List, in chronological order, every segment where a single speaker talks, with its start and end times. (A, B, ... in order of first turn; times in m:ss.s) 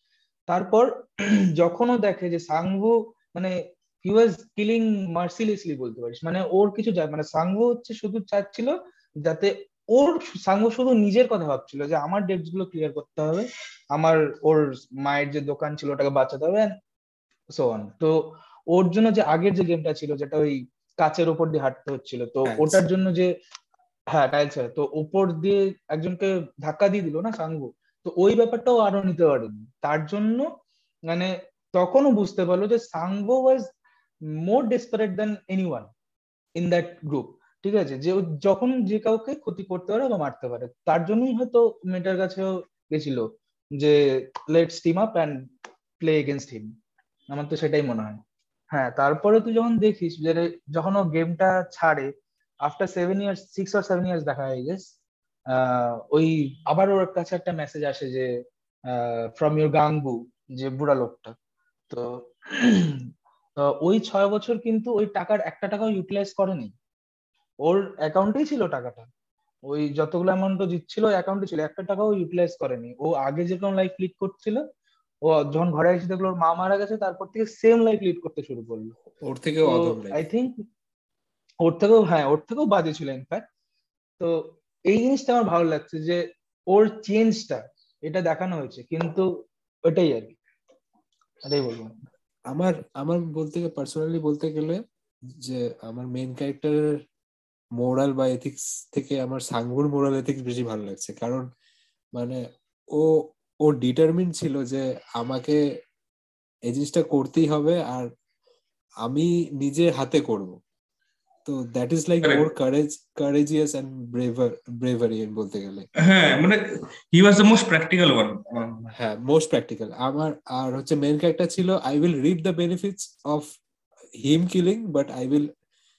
0:00.5-0:16.7 A
0:17.5-0:18.2 A
0:18.7-0:23.3 A
0:22.5-0:22.8 B
0:24.1-0:30.5 A
0:31.1-0:33.7 A
0:34.4-0:35.9 A
0:36.6-0:44.0 A
0:44.5-0:45.4 A
0:46.0-0:46.7 A
0:47.3-0:48.2 A
0:48.7-0:52.1 A
0:52.6-0:54.9 A
0:55.5-0:58.3 A
0:58.9-1:01.3 A
1:01.9-1:03.1 A
1:03.6-1:06.7 A
1:07.6-1:09.1 A
1:09.7-1:14.6 A
1:15.3-1:18.9 A
1:19.2-1:20.2 B
1:19.6-1:20.6 A
1:21.6-1:23.4 A
1:24.2-1:29.3 A
1:29.9-1:30.4 A
1:31.4-1:31.9 A
1:32.5-1:34.8 B
1:35.4-1:36.9 B
1:37.8-1:41.4 B
1:43.0-1:45.6 B
1:46.7-1:48.1 B
1:49.0-1:50.6 B
1:51.4-1:55.9 B
1:56.0-1:56.6 C
1:57.1-1:58.9 C
1:59.0-2:03.5 B
2:04.2-2:05.5 B